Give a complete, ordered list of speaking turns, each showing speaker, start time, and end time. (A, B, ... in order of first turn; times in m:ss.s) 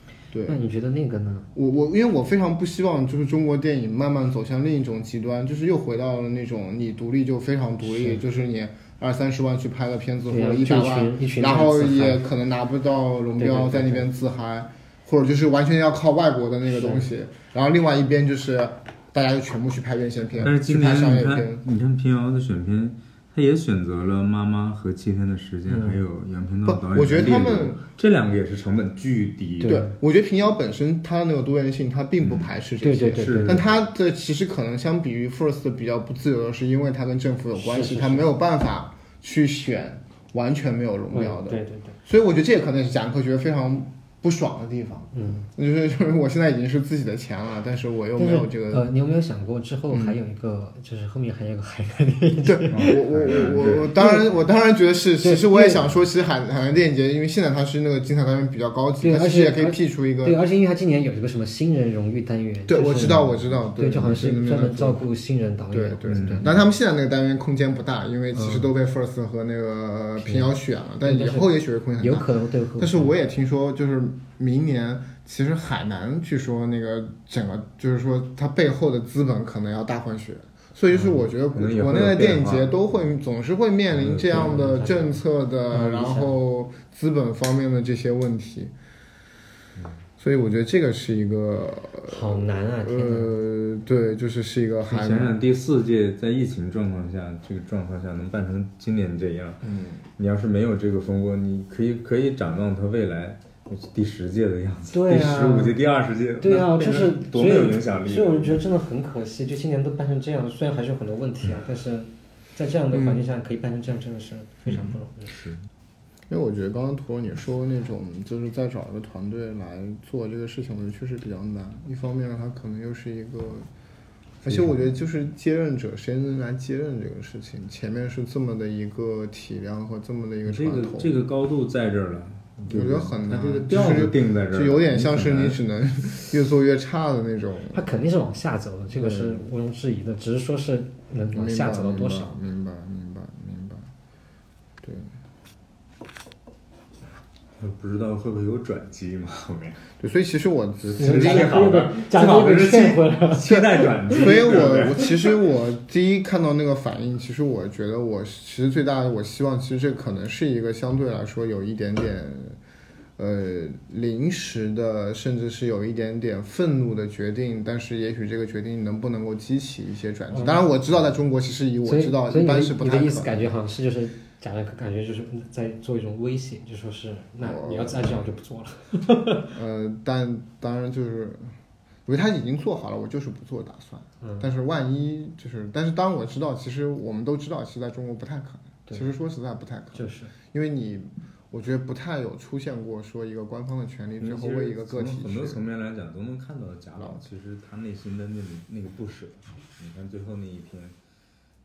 0:00.3-0:00.6 A
0:00.5-0:01.5 B
0:01.5-0:21.6 A
0:07.8-0:08.2 B
0:10.3-0:12.2 B
0:13.4-0:14.1 B
0:16.7-0:17.1 B
0:20.4-0:29.8 C
0:25.7-0:26.0 B
0:26.6-0:27.8 A
0:29.6-0:30.0 B
0:29.6-0:48.9 A
0:32.2-0:32.5 C
0:32.8-0:33.6 B
0:33.2-0:33.8 C
0:37.5-0:38.3 B
0:41.1-0:42.0 B
0:45.1-0:45.5 B
0:48.2-0:54.4 B
0:49.9-0:50.2 A
0:52.4-1:00.4 A
0:52.7-0:53.9 C
0:55.2-0:55.8 B
0:59.0-1:06.4 B
1:02.7-1:05.0 A
1:05.7-1:28.7 A
1:06.1-1:06.6 C
1:08.3-1:08.7 B
1:10.2-1:13.1 B
1:20.9-1:21.2 B
1:21.5-1:23.1 C
1:23.9-1:24.5 C
1:24.2-1:26.4 B
1:30.2-1:35.4 A
1:32.0-1:33.3 B
1:34.8-1:39.6 C
1:39.6-1:40.0 A
1:40.2-1:48.6 C
1:44.9-1:45.8 B
1:46.4-1:55.3 B
1:52.9-1:53.2 A
1:54.7-1:55.6 C
1:56.3-2:03.7 A
2:04.4-2:11.2 A
2:04.5-2:04.9 C
2:10.4-2:15.6 C
2:12.7-2:17.8 A
2:17.7-2:22.4 B
2:18.9-2:19.5 A
2:21.3-2:23.9 A
2:24.8-2:25.1 A
2:27.6-2:29.8 C
2:30.0-2:31.7 A
2:30.8-2:35.2 C
2:31.0-2:34.4 B
2:33.5-2:42.6 A
2:43.2-2:53.4 A
2:50.3-2:50.7 B
2:51.8-2:59.5 B
2:57.4-2:58.2 A
2:59.5-3:01.5 A
3:02.0-3:15.6 A
3:04.2-3:04.5 B
3:08.9-3:09.1 B
3:09.9-3:10.3 B
3:14.2-3:21.0 C
3:17.0-3:17.2 A